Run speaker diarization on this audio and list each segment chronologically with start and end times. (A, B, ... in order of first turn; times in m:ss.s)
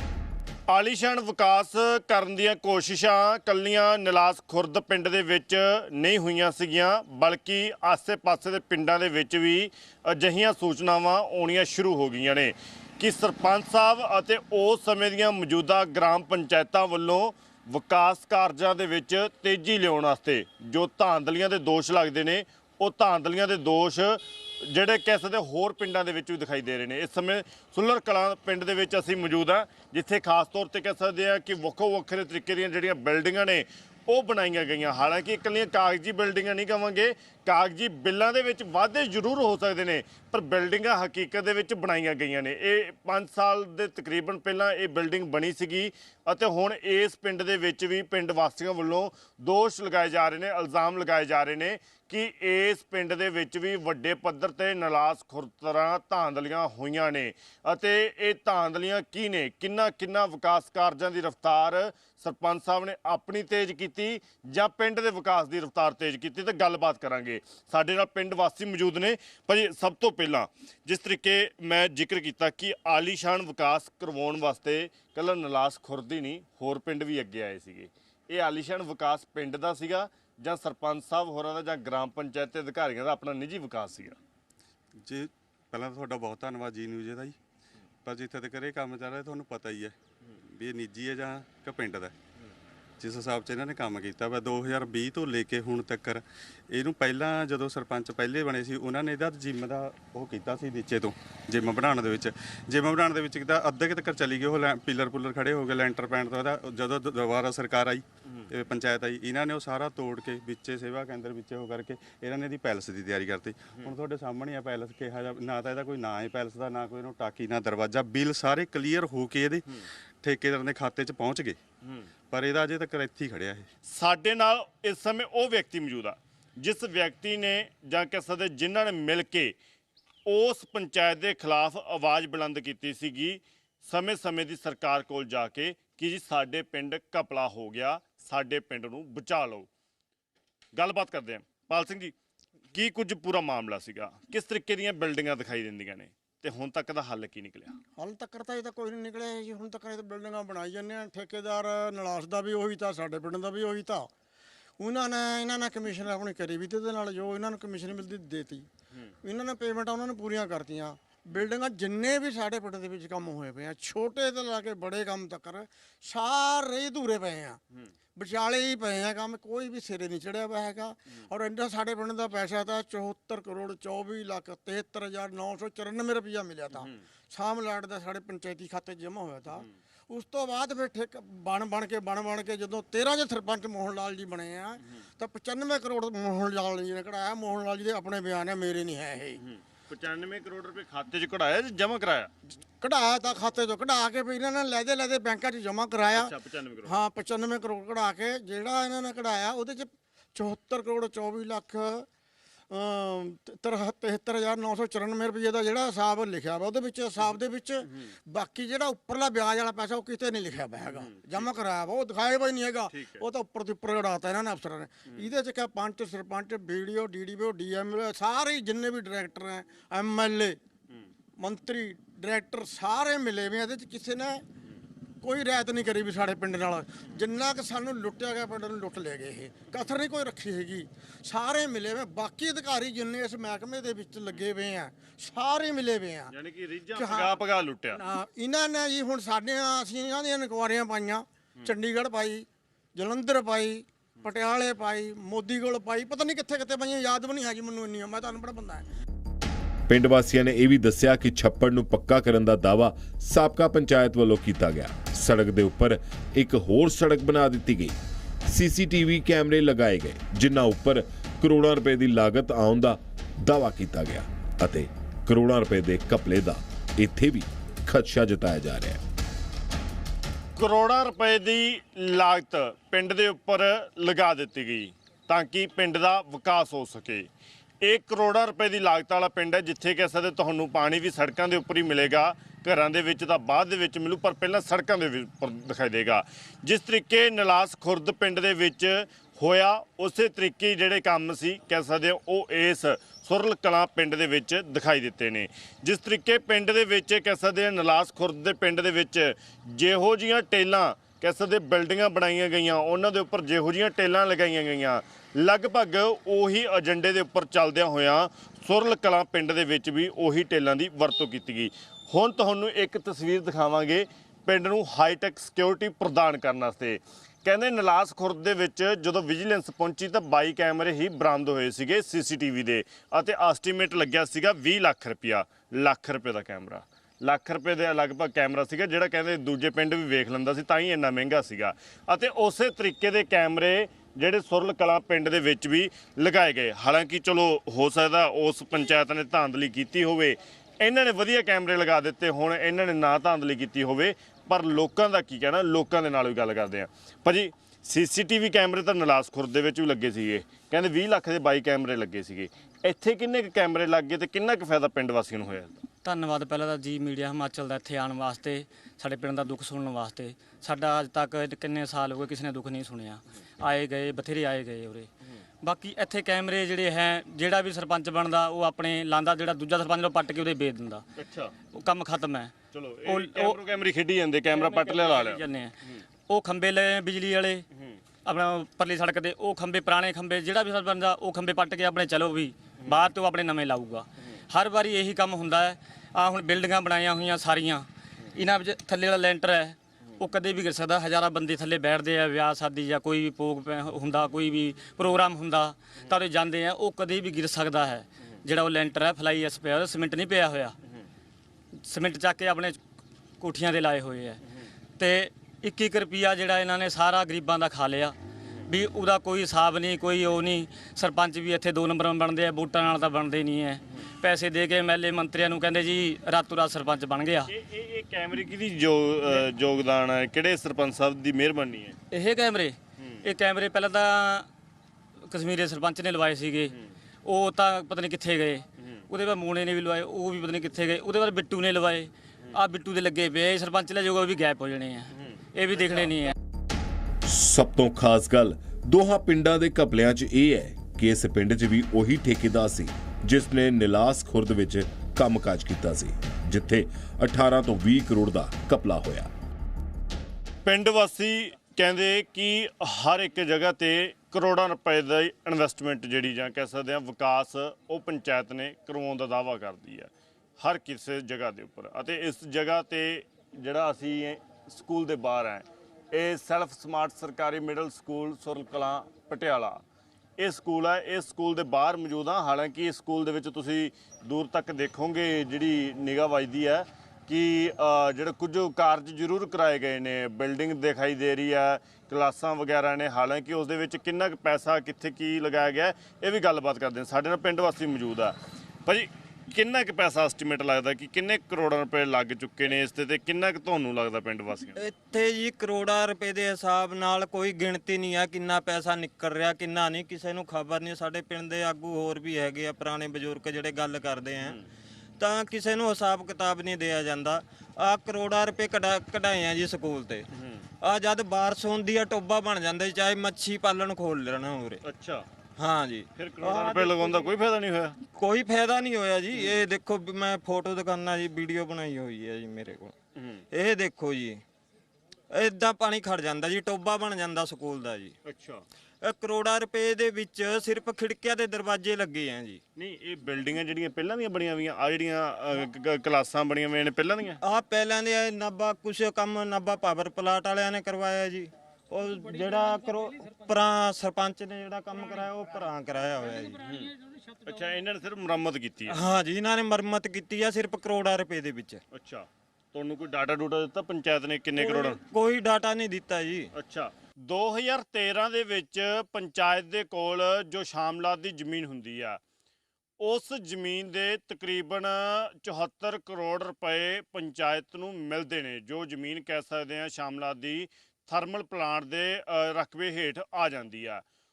0:00.7-1:24.2 A
1:25.0-1:27.4 B
1:28.0-1:32.2 B
1:33.0-2:01.6 B
2:02.3-2:03.7 B
2:03.9-2:09.6 A
2:10.3-2:19.7 A
2:20.8-2:22.2 A
2:22.7-2:27.8 A
2:28.0-2:34.1 C
2:34.8-2:38.7 C
2:39.2-2:47.6 C
2:48.2-3:09.4 C
3:09.4-3:12.3 A
3:12.8-3:16.3 C
3:16.1-3:17.0 A
3:16.8-3:22.1 C
3:22.7-3:40.6 C
3:30.9-3:31.5 A
3:32.9-3:33.2 A
3:41.4-3:44.4 C
3:45.2-3:56.3 C
3:56.3-3:58.0 A
3:56.9-3:57.4 C
3:57.9-4:08.9 C
4:09.9-4:29.0 D
4:30.6-4:37.3 A
4:37.8-5:55.8 A
5:56.0-6:05.1 E
6:05.6-6:11.1 E
6:11.2-6:11.5 A
6:11.7-6:12.6 E
6:12.7-6:16.0 A
6:13.1-6:13.6 E
6:14.5-6:15.8 E
6:16.3-6:17.6 E
6:18.2-6:40.8 E
6:41.9-6:42.8 E
6:43.4-6:44.4 E
6:45.0-6:48.2 E
6:48.7-6:57.5 E
6:57.5-7:02.0 A
7:02.1-7:04.5 E
7:05.3-7:16.3 E
7:15.2-7:16.1 A
7:17.2-7:29.3 D
7:30.7-7:49.8 A
7:50.4-8:14.9 A
8:14.8-8:24.6 F
8:25.2-8:30.3 F
8:30.4-8:30.6 A
8:30.8-8:34.8 F
8:34.8-8:35.3 A
8:35.6-8:37.3 F
8:36.2-8:38.0 A
8:38.2-8:43.0 F
8:39.3-8:39.6 A
8:43.2-8:43.4 A
8:43.5-8:44.4 F
8:45.3-8:48.1 F
8:48.2-8:48.6 A
8:49.0-8:52.6 F
8:52.8-8:57.4 A
8:57.4-9:06.6 F
9:06.6-9:06.9 A
9:07.4-9:09.1 A
9:08.9-9:11.8 F
9:11.9-9:15.0 A
9:14.6-9:16.5 F
9:16.6-9:22.2 A
9:23.0-9:34.0 A